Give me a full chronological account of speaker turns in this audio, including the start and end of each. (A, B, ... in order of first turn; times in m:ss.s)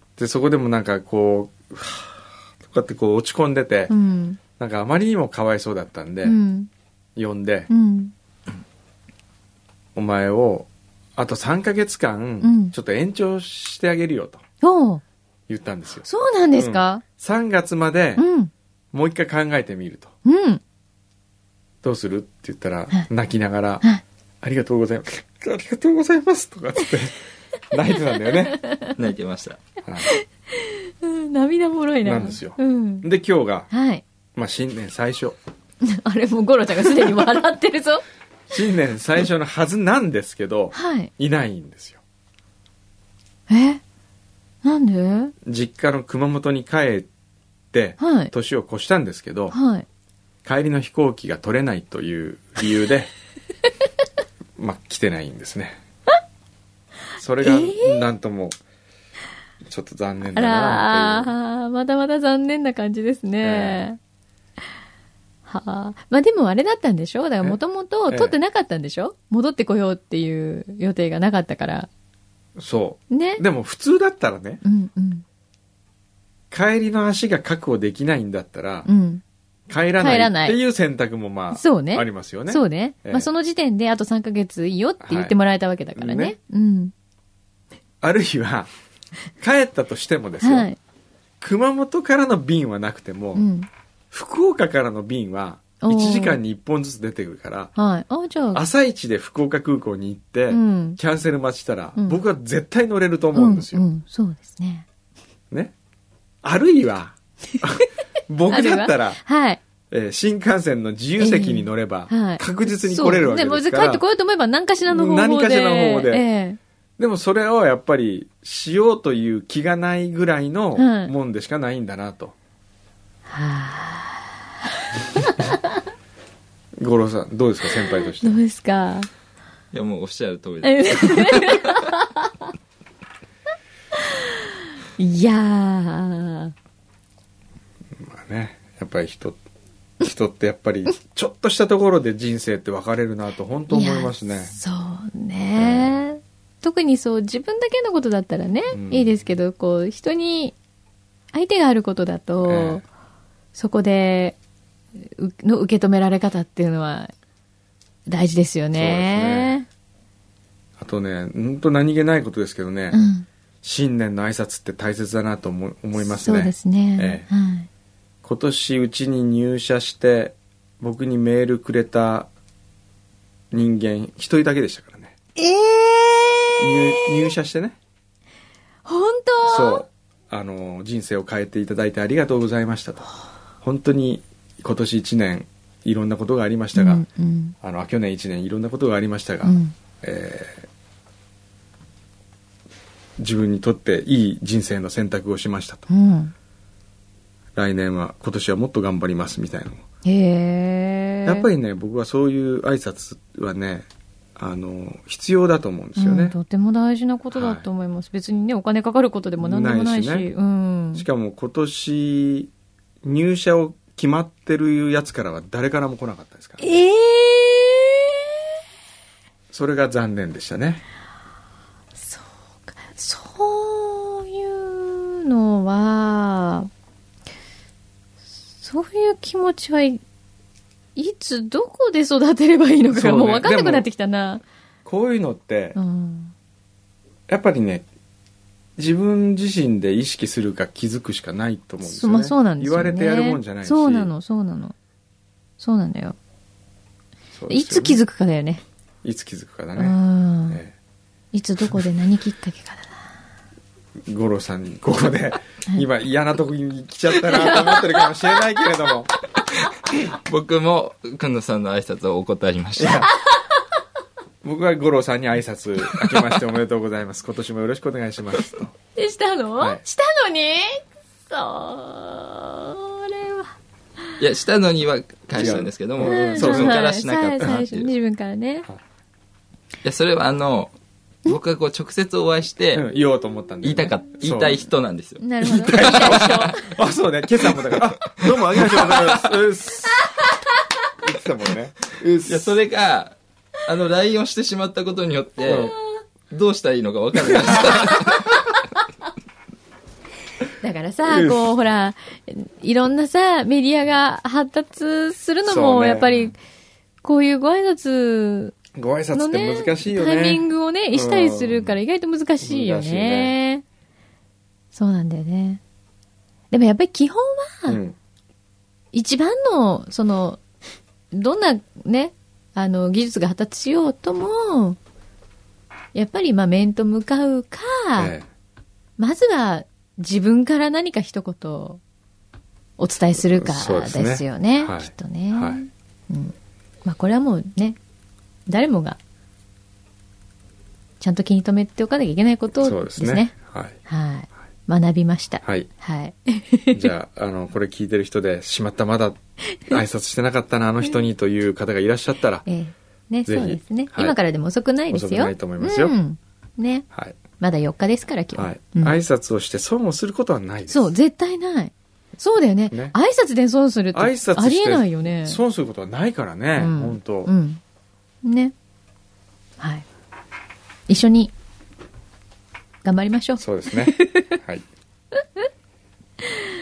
0:00.2-0:03.9 A
0:03.9-0:04.4 B
0:04.6-0:06.4 A
0:06.2-0:06.7 B
0:07.2-0:07.7 A
0:07.7-0:08.1 B
0:09.9-0:14.4 A
0:12.4-0:12.7 B
0:14.6-0:15.0 B
0:15.5-0:18.2 A
0:16.0-0:17.0 B
0:18.2-0:18.5 B
0:18.9-0:20.1 A
0:20.2-0:20.6 B
0:21.8-0:23.8 A
0:24.4-0:27.2 A
0:27.7-0:28.6 A
0:28.6-0:28.9 B
0:29.0-0:29.6 C
0:29.8-0:30.1 A
0:30.0-0:33.0 B
0:32.0-0:33.7 A
0:33.7-0:34.0 B
0:34.3-0:35.4 A
0:35.8-0:38.0 B
0:38.5-0:42.0 A
0:40.7-0:41.1 B
0:43.5-0:43.8 B
0:44.6-0:45.3 B
0:45.4-0:47.1 A
0:47.7-0:49.6 A
0:48.0-0:48.3 B
0:49.5-0:49.8 B
0:50.4-0:53.1 A
0:54.6-0:55.8 A
0:57.2-0:58.6 A
0:57.4-0:58.0 B
0:59.6-1:01.3 A
1:00.3-1:04.0 B
1:03.4-1:03.8 A
1:05.5-1:11.9 B
1:08.1-1:08.4 A
1:12.6-1:14.6 A
1:13.1-1:13.4 B
1:14.6-1:15.2 B
1:16.5-1:18.9 A
1:18.8-1:19.2 B
1:19.7-1:23.3 A
1:20.0-1:20.6 B
1:21.5-1:26.9 B
1:25.0-1:25.4 A
1:25.9-1:26.3 A
1:28.0-1:28.7 A
1:29.4-1:30.7 A
1:30.4-1:30.8 B
1:31.4-1:33.5 A
1:33.3-1:33.7 B
1:34.1-1:37.7 A
1:35.8-1:36.4 B
1:37.8-1:38.6 B
1:38.5-1:43.8 A
1:40.5-1:41.0 B
1:43.3-1:44.8 B
1:46.4-1:49.2 A
1:48.5-1:49.6 B
1:49.9-1:54.0 A
1:51.2-1:56.6 B
1:54.9-1:56.2 A
1:57.0-2:02.3 A
2:00.8-2:01.1 B
2:03.3-2:05.8 B
2:06.8-2:08.4 A
2:08.2-2:09.1 B
2:09.7-2:11.8 C
2:10.6-2:12.3 B
2:15.0-2:16.5 B
2:18.0-2:19.4 A
2:20.0-2:24.5 A
2:23.7-2:30.5 B
2:25.6-2:26.0 A
2:28.7-2:29.1 A
2:31.3-2:32.8 B
2:32.4-2:32.8 A
2:33.5-2:34.4 B
2:35.0-2:37.1 B
2:38.1-2:39.7 B
2:38.7-2:39.6 A
2:40.8-2:43.0 A
2:42.9-2:43.3 B
2:43.6-2:47.3 A
2:46.0-2:47.7 B
2:48.2-2:52.3 A
2:53.5-2:55.2 A
2:55.4-2:57.3 B
2:56.6-2:57.8 A
2:58.8-2:59.8 B
2:59.4-3:03.1 A
3:03.6-3:07.0 A
3:06.7-3:07.5 B
3:07.6-3:10.7 A
3:09.4-3:09.7 B
3:13.2-3:15.9 A
3:15.9-3:16.3 B
3:17.5-3:19.8 A
3:20.0-3:21.5 B
3:21.2-3:26.3 A
3:26.0-3:31.0 B
3:27.3-3:27.7 A
3:29.4-3:30.3 A
3:31.0-3:32.5 A
3:33.0-3:36.6 A
3:36.6-3:38.2 B
3:39.5-3:40.8 A
3:42.0-3:46.7 B
3:48.6-3:50.0 B
3:51.0-3:54.4 B
3:52.9-3:53.8 A
3:54.8-3:55.8 A
3:55.8-3:56.3 B
3:57.3-3:57.8 A
3:58.8-4:04.1 A
4:01.8-4:04.7 B
4:05.6-4:06.2 B
4:07.3-4:08.0 A
4:07.5-4:08.6 B
4:09.0-4:10.0 A
4:09.8-4:10.6 B
4:11.3-4:13.1 B
4:14.1-4:19.1 A
4:17.2-4:18.1 B
4:19.9-4:23.1 C
4:22.8-4:23.1 A
4:24.4-4:28.7 A
4:28.9-4:33.5 B
4:34.2-4:37.9 C
4:35.3-4:36.8 A
4:36.0-4:38.7 B
4:39.8-4:40.7 C
4:41.2-4:42.9 C
4:42.7-4:44.6 A
4:43.6-4:46.5 C
4:45.2-4:46.6 B
4:45.4-4:50.0 A
4:47.6-4:49.3 C
4:51.0-4:52.6 A
4:52.2-4:55.7 C
4:55.4-4:55.7 A
4:56.3-4:58.4 C
5:00.6-5:06.4 B
5:01.1-5:01.4 A
5:05.4-5:06.3 A
5:07.0-5:08.6 B
5:08.7-5:11.8 A
5:09.1-5:13.6 B
5:12.4-5:13.4 A
5:14.7-5:15.6 B
5:16.5-5:17.8 B
5:17.7-5:18.0 A
5:18.9-5:20.4 B
5:21.1-5:24.8 B
5:25.9-5:28.1 B
5:28.0-5:28.2 A
5:29.0-5:31.8 B
5:32.8-5:37.8 B
5:33.2-5:35.6 A
5:38.5-5:39.0 B
5:41.0-5:43.3 B
5:42.6-5:43.8 A
5:43.8-5:46.9 B
5:45.4-5:45.7 A
5:46.7-5:52.4 A
5:52.4-5:56.8 B
5:53.2-5:54.2 A
5:54.9-5:55.9 A
5:56.9-5:57.2 A
5:57.4-5:59.0 B
5:58.4-6:00.9 A
6:00.7-6:05.4 B
6:03.9-6:07.3 A
6:06.6-6:07.6 B
6:08.2-6:08.5 B
6:09.6-6:09.8 B
6:10.9-6:11.3 B
6:12.8-6:14.4 B
6:13.4-6:14.6 A